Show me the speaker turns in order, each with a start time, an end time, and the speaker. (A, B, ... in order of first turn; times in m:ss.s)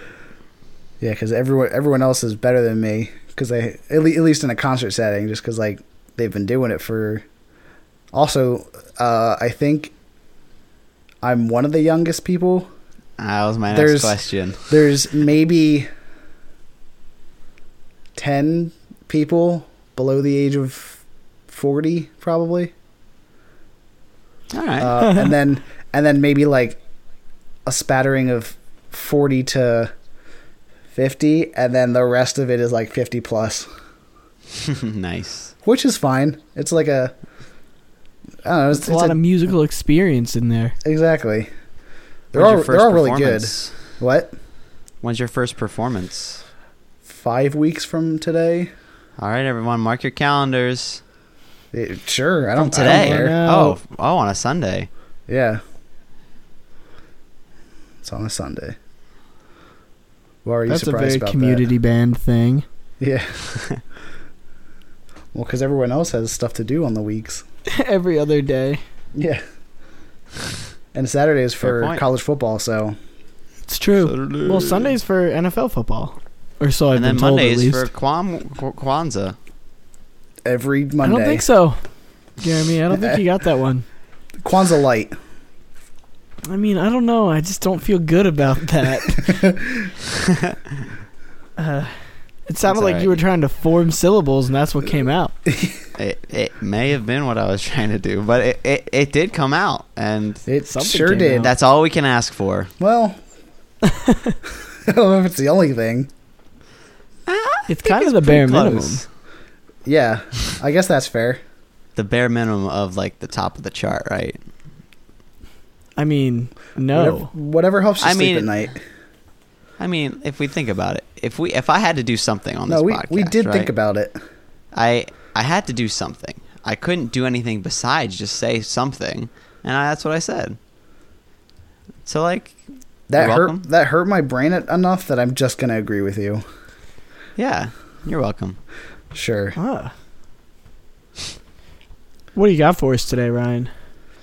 0:01.0-0:07.2 A
0:08.1-0:09.9 A
0:11.2-0:12.7 A
0:13.2-0:14.7 B
0:13.7-0:15.9 A
0:18.2-0:22.7 A
0:24.5-0:25.0 B
0:24.8-0:26.8 A
0:25.0-0:25.3 C
0:27.7-0:29.9 A
0:30.9-0:33.7 A
0:34.6-0:35.5 B
0:35.6-0:37.1 A
0:38.4-0:39.2 A
0:38.7-0:40.8 C
0:40.8-0:41.5 A
0:42.3-0:44.3 A
0:42.3-0:43.7 B
0:45.0-0:46.4 B
0:47.1-0:48.7 A
0:49.2-0:51.0 B
0:51.7-0:53.4 A
0:52.6-0:54.9 B
0:52.8-0:53.8 C
0:55.3-0:55.6 A
0:58.0-0:58.8 A
1:00.4-1:01.6 A
1:00.7-1:02.6 C
1:03.0-1:03.4 A
1:05.3-1:07.4 A
1:07.7-1:08.8 C
1:09.2-1:09.4 A
1:10.9-1:13.0 A
1:11.6-1:12.0 B
1:13.7-1:17.9 C
1:14.0-1:14.9 B
1:16.9-1:19.4 B
1:20.4-1:21.4 A
1:21.0-1:21.8 C
1:22.4-1:23.8 C
1:22.9-1:23.2 A
1:24.4-1:25.2 A
1:26.5-1:29.5 C
1:29.3-1:29.9 A
1:30.1-1:30.6 B
1:31.6-1:35.3 C
1:32.7-1:33.2 B
1:36.0-1:40.4 B
1:40.5-1:41.5 A
1:40.7-1:41.5 C
1:41.4-1:42.7 B
1:42.8-1:43.2 A
1:43.8-1:44.4 C
1:44.9-1:46.1 A
1:47.3-1:49.0 B
1:47.7-1:49.0 C
1:49.8-1:51.4 A
1:52.0-1:54.4 B
1:56.0-1:57.3 C
1:56.9-1:58.8 A
1:58.0-1:58.5 B
1:59.8-2:03.7 B
2:02.7-2:04.2 A
2:04.7-2:10.6 B
2:12.1-2:12.6 B
2:13.1-2:16.4 A
2:13.2-2:13.6 B
2:17.4-2:18.6 B
2:19.1-2:19.6 A
2:19.6-2:19.9 C
2:22.4-2:23.7 C